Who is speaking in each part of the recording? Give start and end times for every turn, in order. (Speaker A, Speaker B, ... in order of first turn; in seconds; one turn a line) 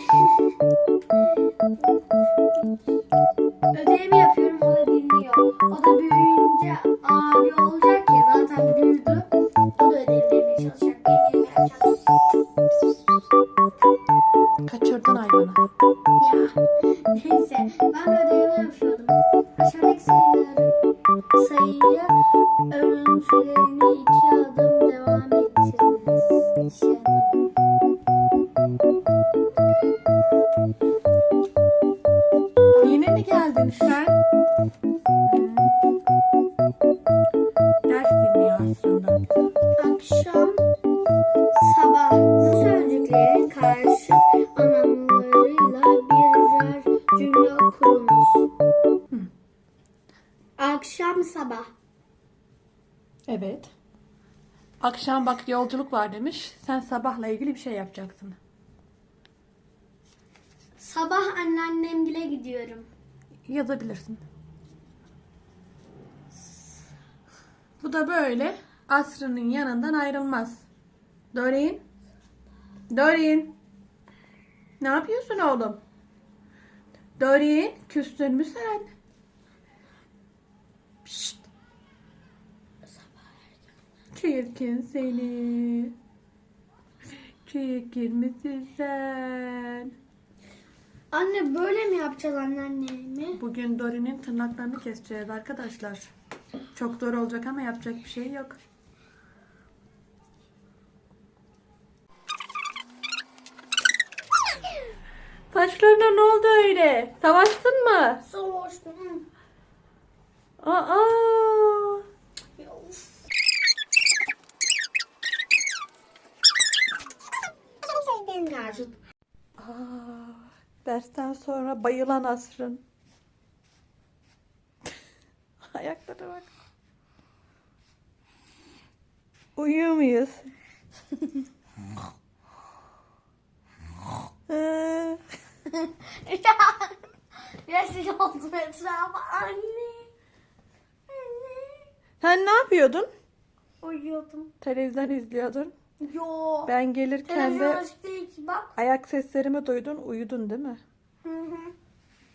Speaker A: 3.7-12.2
Speaker B: 14.7-15.7
Speaker A: 16.2-16.6
Speaker A: 17.1-20.8
Speaker A: 21.3-22.2
Speaker A: 22.7-27.4
Speaker B: 32.7-34.0
Speaker A: 33.8-34.2
Speaker B: 35.3-35.7
Speaker B: 37.9-39.3
Speaker A: 39.8-40.7
Speaker A: 41.5-48.5
Speaker A: 50.6-51.7
Speaker B: 53.3-53.7
Speaker B: 54.8-58.4
Speaker A: 60.8-62.9
Speaker B: 63.5-64.2
Speaker B: 67.8-70.7
Speaker B: 71.3-71.8
Speaker B: 72.9-73.5
Speaker B: 74.8-75.8
Speaker B: 77.2-78.9
Speaker B: 81.0-81.4
Speaker B: 84.1-85.9
Speaker B: 87.4-89.9
Speaker A: 91.1-93.4
Speaker B: 93.4-96.1
Speaker B: 96.7-98.6
Speaker B: 105.5-108.2
Speaker A: 108.2-109.3
Speaker B: 110.6-112.0
Speaker A: 112.6-113.2
Speaker A: 117.9-119.0
Speaker B: 119.6-122.8
Speaker B: 125.7-126.5
Speaker B: 129.6-130.5
Speaker B: 134.5-135.2
Speaker A: 135.7-137.0
Speaker A: 137.6-140.1
Speaker A: 141.1-141.9
Speaker B: 142.2-143.1
Speaker A: 143.8-144.5
Speaker B: 144.6-145.7
Speaker A: 146.0-146.7
Speaker B: 146.7-147.8
Speaker A: 147.3-148.8
Speaker B: 148.8-150.8
Speaker A: 151.2-151.8